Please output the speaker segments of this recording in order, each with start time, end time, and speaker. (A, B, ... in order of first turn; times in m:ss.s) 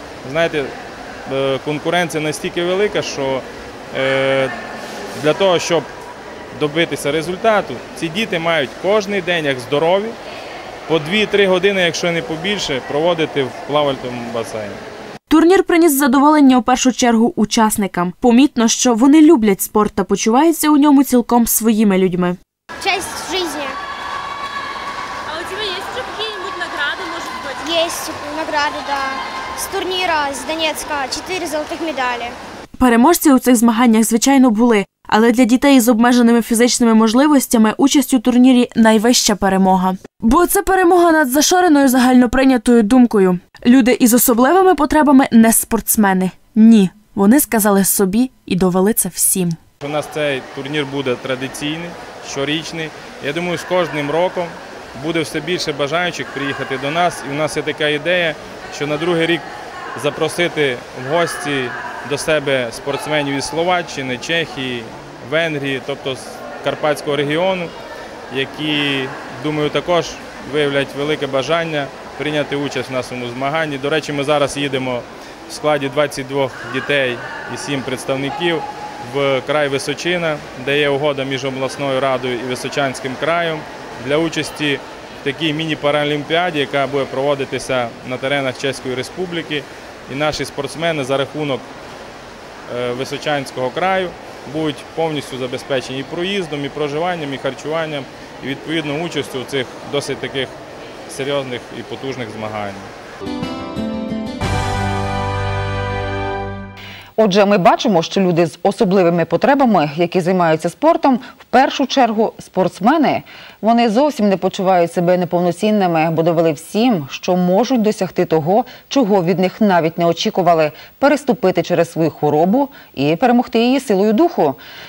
0:00.2-0:04.6 A
0:05.1-0:05.9 A
0:06.5-0:10.2 A
0:10.9-0:14.8 A
0:15.3-0:22.4 B
0:22.8-0:23.8 C
0:25.3-0:27.6 D
0:27.6-0:32.4 C
0:32.8-0:49.6 B
0:49.8-1:07.7 A
1:08.3-1:31.7 A
1:32.7-1:40.6 A
1:41.1-1:42.9 A
1:47.2-2:04.6 E